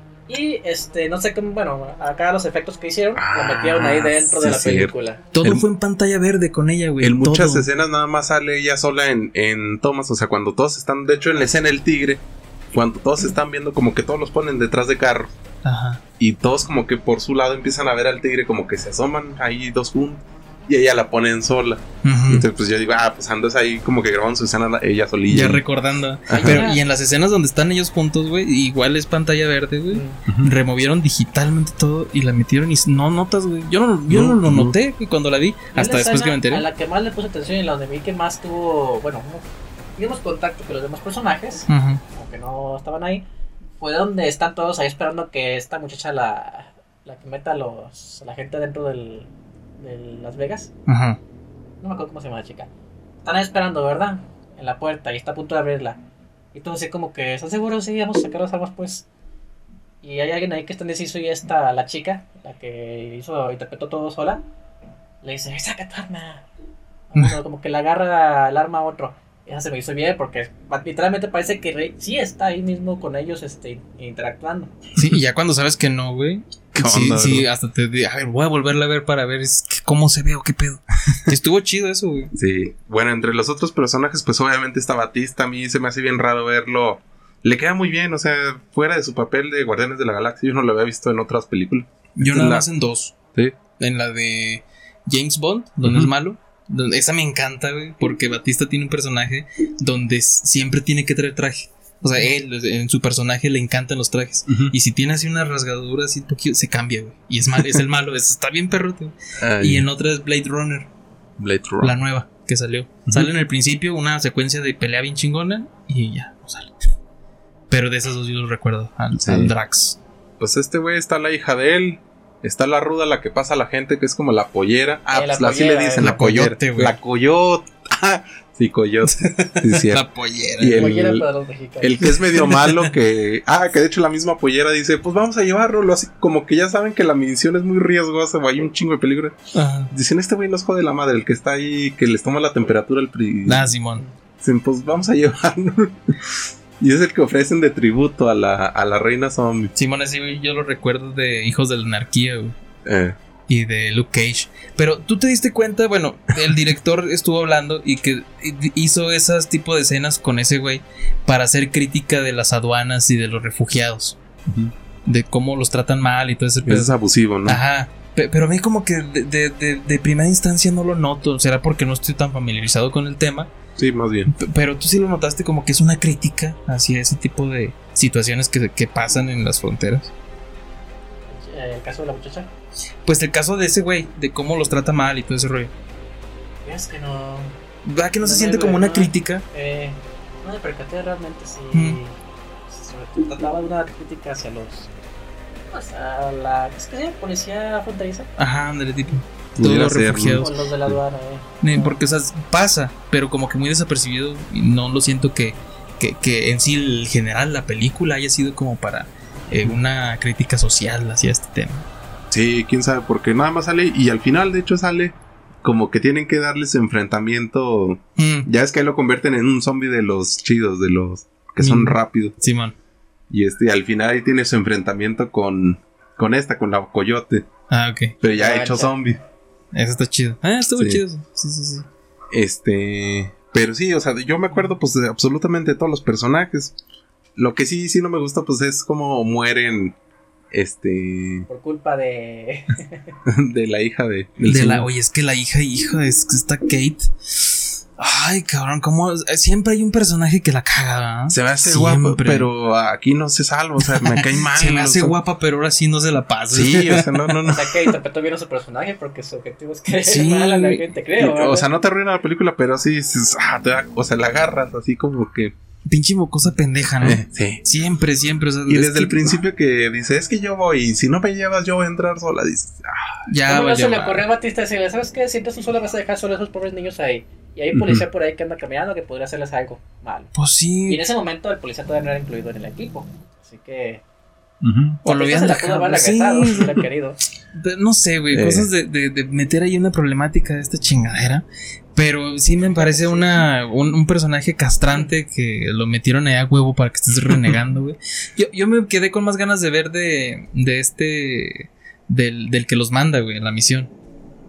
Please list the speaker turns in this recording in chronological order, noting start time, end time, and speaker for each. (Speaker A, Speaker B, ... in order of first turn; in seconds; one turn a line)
Speaker A: 0.3-5.2
Speaker B: 3.1-5.6
Speaker C: 5.3-7.7
Speaker B: 7.0-12.2
Speaker B: 12.7-15.3
Speaker C: 15.6-16.0
Speaker B: 16.2-25.6
Speaker C: 22.0-22.5
Speaker C: 25.3-36.6
Speaker A: 26.3-26.8
Speaker B: 26.3-26.6
Speaker A: 29.9-30.2
Speaker B: 30.3-30.5
Speaker B: 34.1-34.8
Speaker A: 35.7-39.4
Speaker A: 40.0-43.2
Speaker C: 41.7-42.0
Speaker A: 43.8-50.7
Speaker C: 50.9-51.2
Speaker A: 51.8-52.7
Speaker A: 53.2-56.0
Speaker A: 56.5-59.0
Speaker A: 60.0-64.4
Speaker A: 65.2-66.5
Speaker A: 67.1-74.7
Speaker C: 74.9-82.3
Speaker B: 76.7-77.5
Speaker B: 82.3-92.7
Speaker C: 92.2-93.1
Speaker C: 93.8-110.9
Speaker B: 95.8-96.1
Speaker B: 104.5-104.7
Speaker B: 109.4-109.9
Speaker B: 111.4-111.9
Speaker C: 111.8-116.7
Speaker C: 117.7-120.0
Speaker B: 119.2-119.5
Speaker B: 120.4-130.0
Speaker A: 125.1-126.1
Speaker C: 126.0-127.0
Speaker C: 129.0-131.0
Speaker B: 130.6-131.2
Speaker A: 130.7-132.1
Speaker B: 131.8-139.4
Speaker C: 132.3-132.9
Speaker C: 139.5-139.9
Speaker B: 139.9-143.7
Speaker C: 143.4-144.0
Speaker B: 144.4-149.7
Speaker C: 149.7-152.5
Speaker B: 152.8-153.2
Speaker C: 153.5-164.2
Speaker C: 165.1-166.9
Speaker B: 166.6-167.6
Speaker C: 167.4-173.5
Speaker B: 173.8-174.3
Speaker C: 174.3-180.1
Speaker A: 181.3-182.5
Speaker C: 183.0-185.7
Speaker A: 186.6-187.5
Speaker C: 187.8-189.4
Speaker A: 188.2-194.9
Speaker C: 191.7-192.0
Speaker A: 195.7-198.3
Speaker C: 198.4-200.5
Speaker B: 199.6-201.0
Speaker A: 200.4-202.0
Speaker C: 201.6-211.8
Speaker B: 212.3-222.3
Speaker C: 218.2-218.5
Speaker C: 221.6-222.7
Speaker B: 223.3-227.4
Speaker C: 227.7-228.2
Speaker B: 228.2-229.2
Speaker A: 228.3-228.9
Speaker C: 229.7-231.8
Speaker B: 230.8-231.0
Speaker B: 232.3-236.7
Speaker B: 237.3-240.0
Speaker B: 240.5-241.5
Speaker A: 241.5-243.1
Speaker B: 243.2-244.9
Speaker C: 244.4-252.5
Speaker B: 251.3-255.2
Speaker C: 253.9-257.0
Speaker B: 256.5-257.7
Speaker A: 257.4-261.7
Speaker C: 260.0-260.8
Speaker B: 261.2-265.5
Speaker C: 265.9-269.3
Speaker B: 267.0-267.6
Speaker B: 268.7-273.2
Speaker C: 273.3-274.2
Speaker A: 273.5-280.3
Speaker B: 277.7-278.0
Speaker C: 280.3-281.0
Speaker A: 280.9-284.0
Speaker B: 284.6-285.0
Speaker C: 285.0-286.8
Speaker A: 285.0-287.2
Speaker C: 287.5-303.9
Speaker B: 288.3-288.7
Speaker A: 292.6-293.5